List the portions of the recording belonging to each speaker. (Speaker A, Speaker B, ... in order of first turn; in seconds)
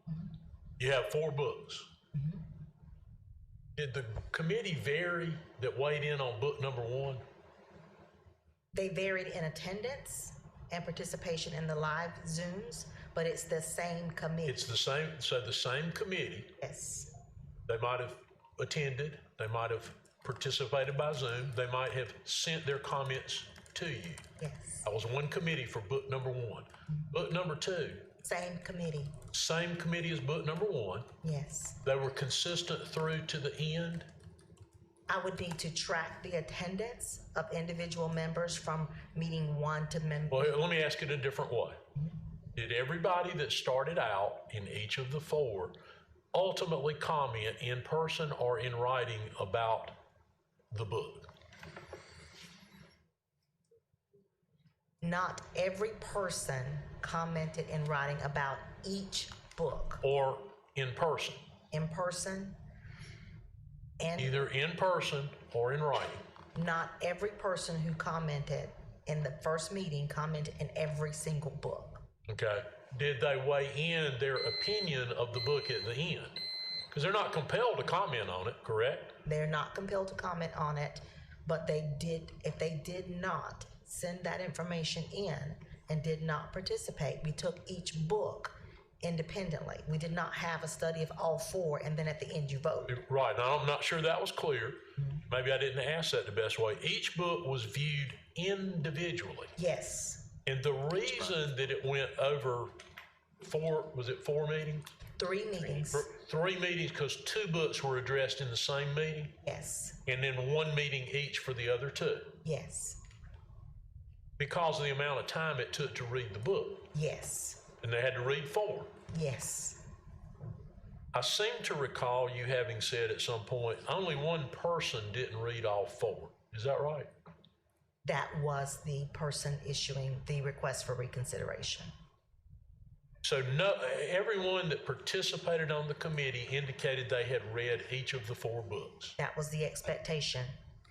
Speaker A: 0.8-1.9, 3.8-7.2, 14.5-16.5, 17.7-24.2, 24.9-28.1, 29.3-31.1, 31.8-34.1, 40.3-41.8, 42.5-45.7, 46.3-50.0, 50.7-51.3, 60.0-61.4, 64.2-66.2, 72.3-76.4, 76.9-79.1, 92.9-99.5, 100.5-102.7, 103.4-104.9, 105.7-109.3, 110.0-112.3, 114.4-116.9, 117.8-118.9, 121.1-127.1, 133.2-139.2
Speaker B: 2.1-2.4, 8.7-14.6, 16.6-17.1, 24.4-24.9, 28.2-29.2, 31.2-31.8, 35.1-40.6, 55.0-60.0, 61.7-62.5, 64.0-64.5, 66.5-72.0, 79.2-93.0, 99.6-100.3, 105.2-106.1, 109.4-110.0, 112.4-113.0, 116.9-117.6, 119.1-119.8, 128.0-131.9, 139.2-140.5